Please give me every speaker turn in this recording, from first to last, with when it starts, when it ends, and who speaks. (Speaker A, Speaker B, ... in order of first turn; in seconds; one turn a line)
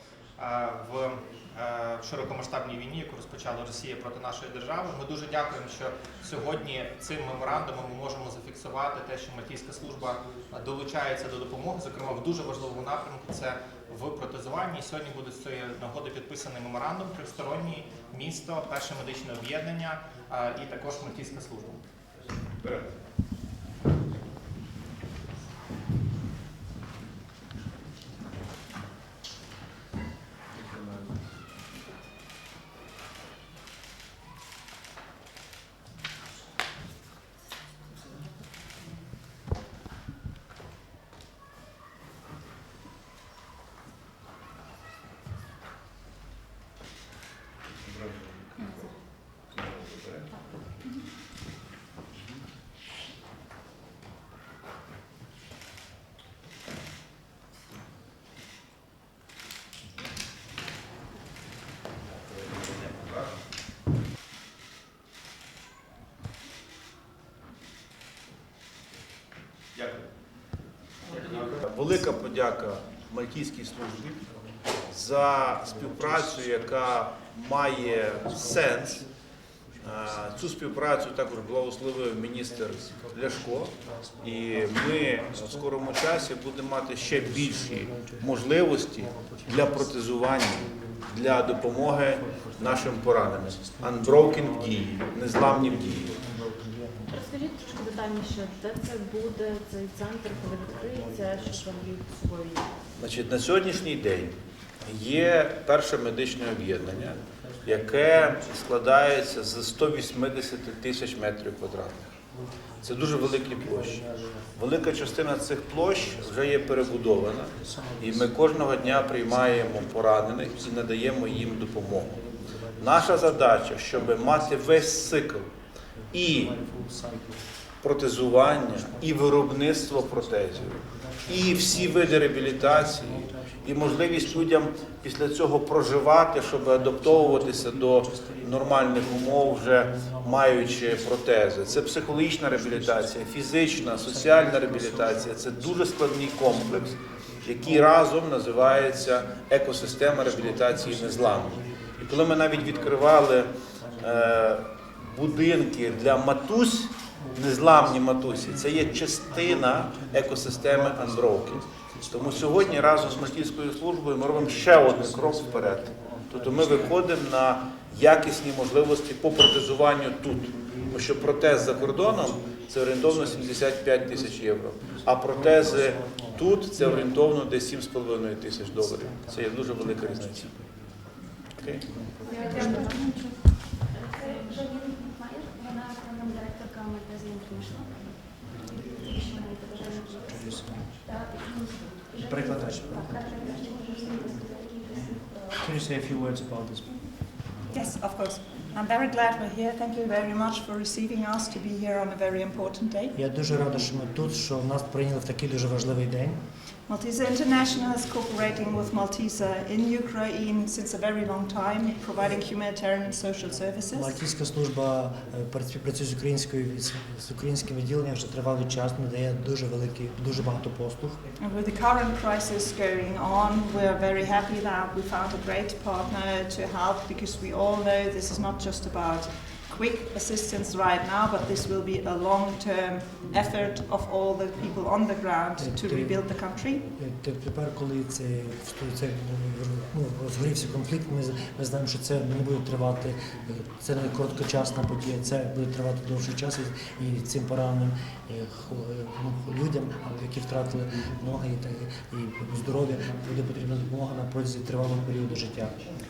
Speaker A: 0.4-21.8
Speaker B: 47.8-48.9
Speaker B: 49.5-50.3
Speaker B: 62.5-63.3
Speaker B: 69.8-70.0
Speaker B: 71.1-74.3
Speaker B: 74.9-79.0
Speaker C: 75.4-76.8
Speaker C: 77.8-79.1
Speaker C: 79.7-80.6
Speaker B: 79.8-96.2
Speaker C: 82.5-86.2
Speaker C: 87.0-97.5
Speaker D: 97.1-102.7
Speaker C: 100.2-102.0
Speaker B: 103.0-112.1
Speaker C: 106.8-108.5
Speaker C: 112.3-125.3
Speaker B: 112.8-122.2
Speaker B: 122.8-125.5
Speaker C: 125.9-127.5
Speaker B: 126.1-126.6
Speaker B: 127.8-180.5
Speaker C: 128.2-134.9
Speaker C: 136.5-156.3
Speaker C: 157.1-167.2
Speaker C: 170.0-177.3
Speaker C: 178.6-181.1
Speaker B: 181.6-181.9
Speaker C: 181.9-182.9
Speaker D: 182.3-183.1
Speaker D: 184.2-184.7
Speaker C: 188.5-189.3
Speaker C: 189.9-191.0
Speaker C: 192.1-194.2
Speaker C: 194.9-197.7
Speaker E: 197.7-203.2
Speaker C: 203.2-206.4
Speaker E: 206.9-214.2
Speaker C: 213.9-221.2
Speaker E: 221.4-236.9
Speaker C: 235.6-255.8